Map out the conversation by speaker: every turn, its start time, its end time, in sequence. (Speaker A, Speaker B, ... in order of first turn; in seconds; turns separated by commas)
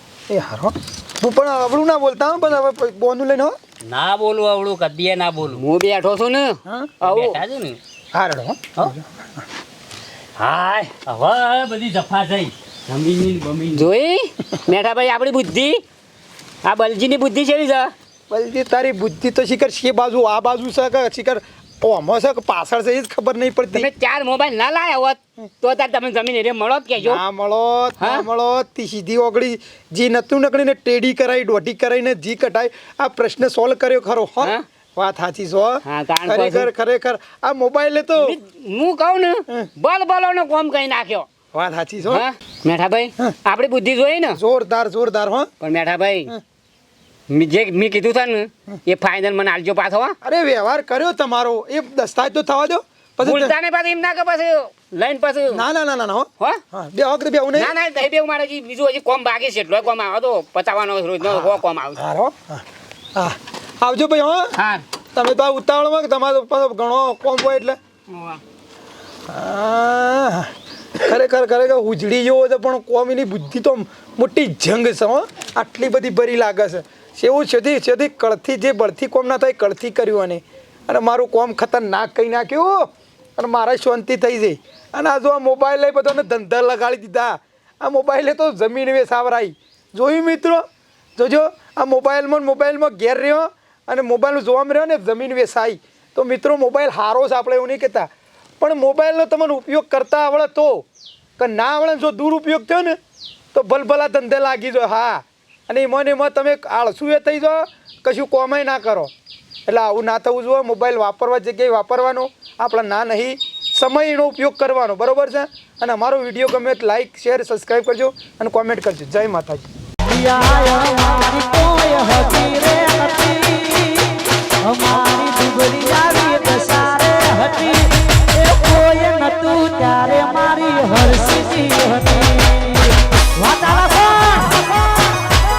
Speaker A: 0.3-3.6, Speaker B: 3.9-5.6, Speaker C: 5.5-7.4, Speaker A: 6.7-6.9, Speaker B: 7.0-7.8, Speaker A: 8.1-9.4, Speaker B: 10.4-13.9, Speaker C: 13.8-15.8, Speaker C: 16.6-17.9, Speaker A: 18.3-23.9, Speaker C: 23.7-27.2, Speaker A: 27.0-38.4, Speaker C: 28.0-28.2, Speaker C: 35.9-36.7, Speaker C: 38.2-41.3, Speaker A: 41.5-42.2, Speaker C: 42.1-44.4, Speaker A: 44.4-45.5, Speaker C: 45.6-46.3, Speaker C: 47.3-50.2, Speaker A: 50.2-53.5, Speaker C: 53.2-55.6, Speaker A: 55.5-57.7, Speaker C: 57.6-62.0, Speaker A: 61.2-62.6, Speaker A: 63.2-64.5, Speaker C: 64.6-64.8, Speaker A: 65.2-67.8, Speaker C: 68.1-68.4, Speaker A: 69.3-90.7, Speaker A: 91.2-100.9, Speaker A: 101.4-103.0, Speaker A: 103.5-109.1, Speaker A: 109.7-119.7, Speaker D: 120.0-123.9, Speaker D: 124.6-134.7